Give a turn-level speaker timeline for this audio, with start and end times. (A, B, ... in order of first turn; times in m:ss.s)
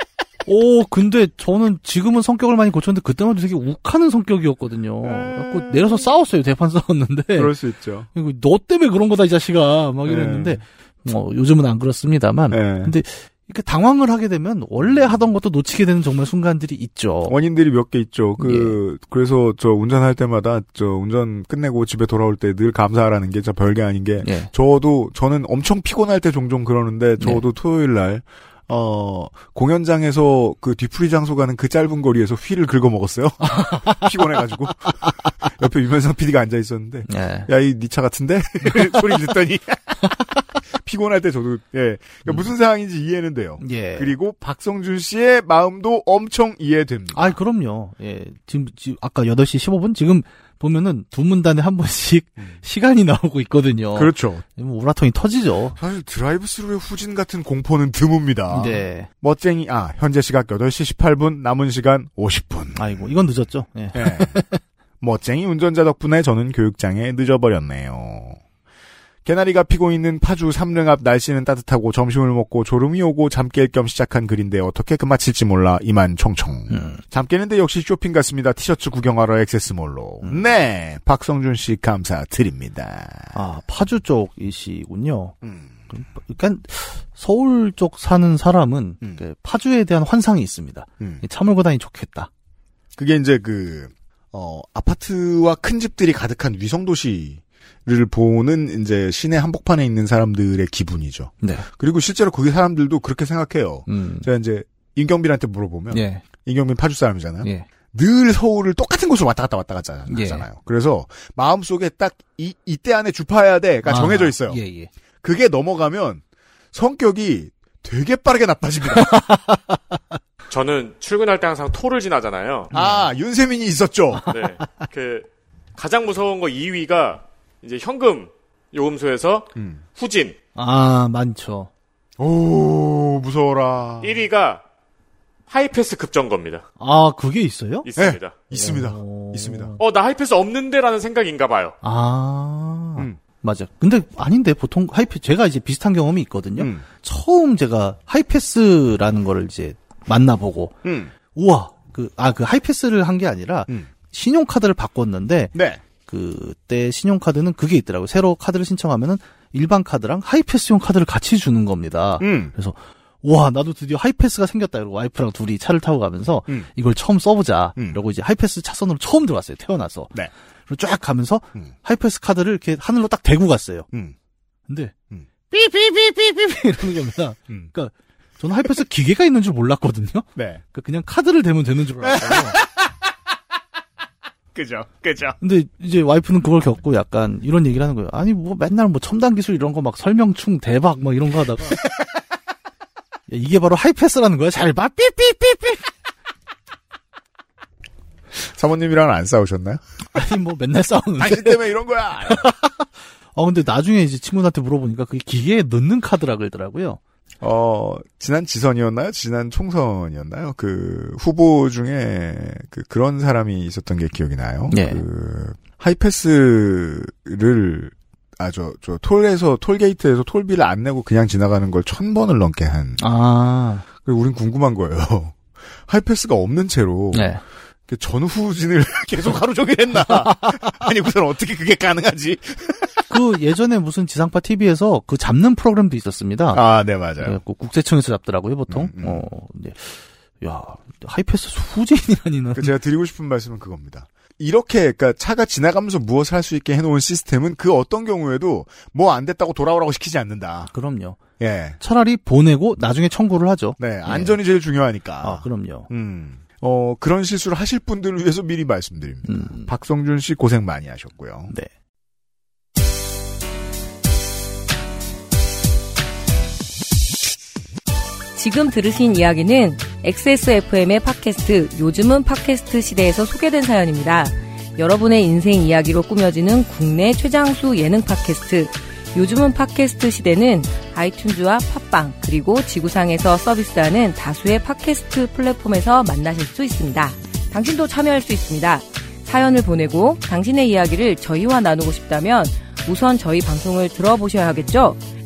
0:00.4-0:07.5 A
0:07.4-0:08.1 B
0:08.1-0:17.4 A
0:10.0-0:10.6 B
0:12.5-0:13.0 B
0:17.3-0:47.4 B
0:18.4-0:18.8 A
0:24.2-0:24.5 A
0:37.1-0:37.5 A
0:43.6-0:44.1 A
0:47.1-0:55.8 A
0:53.9-0:54.4 B
0:55.8-1:02.9 B
0:58.5-0:59.1 A
1:02.8-1:04.6 A
1:03.9-1:04.4 B
1:05.0-1:08.4 B
1:09.2-1:23.4 B
1:16.7-1:17.0 A
1:23.3-1:25.4 A
1:25.4-1:25.7 B
1:25.9-1:32.3 A
1:33.0-1:54.6 B
1:43.9-1:44.3 A
1:45.9-1:46.2 A
1:47.4-1:47.7 A
1:50.1-1:50.5 A
1:53.8-1:54.9 A
1:55.2-1:59.1 B
1:59.0-1:59.8 A
2:00.5-2:02.7 C
2:02.7-2:04.3 B
2:02.7-2:03.1 A
2:04.3-2:10.4 C
2:09.6-2:09.8 B
2:10.6-2:11.7 A
2:12.2-2:14.2 B
2:14.0-2:14.6 C
2:15.5-2:16.6 C
2:16.8-2:17.9 A
2:17.9-2:18.3 C
2:18.0-2:19.8 B
2:18.5-2:19.8 A
2:19.8-2:21.8 C
2:21.8-2:30.8 A
2:26.6-2:26.8 B
2:30.8-2:31.1 B
2:31.3-2:50.2 A
2:35.5-2:35.8 B
2:42.2-2:42.5 B
2:50.7-2:53.9 A
2:54.7-2:54.9 A
2:55.5-3:02.6 A
3:00.4-3:00.6 B
3:02.0-3:02.7 B
3:04.5-3:05.4 B
3:05.4-3:11.8 A
3:13.3-3:15.9 A
3:18.4-3:19.8 B
3:20.1-3:21.7 A
3:21.2-3:22.5 B
3:22.3-3:27.0 A
3:27.4-3:43.0 B
3:34.7-3:35.0 A
3:43.0-3:43.9 A
3:44.0-3:47.3 B
3:47.1-3:47.4 A
3:47.9-3:53.0 B
3:53.1-3:56.6 A
3:56.5-3:57.4 B
3:57.2-4:02.7 A
3:58.7-3:59.2 B
4:02.5-4:10.7 B
4:10.7-4:11.2 A
4:11.4-4:11.8 B
4:11.8-4:14.4 A
4:13.8-4:21.5 B
4:15.2-4:15.9 A
4:19.3-4:19.7 A
4:28.4-4:55.0 D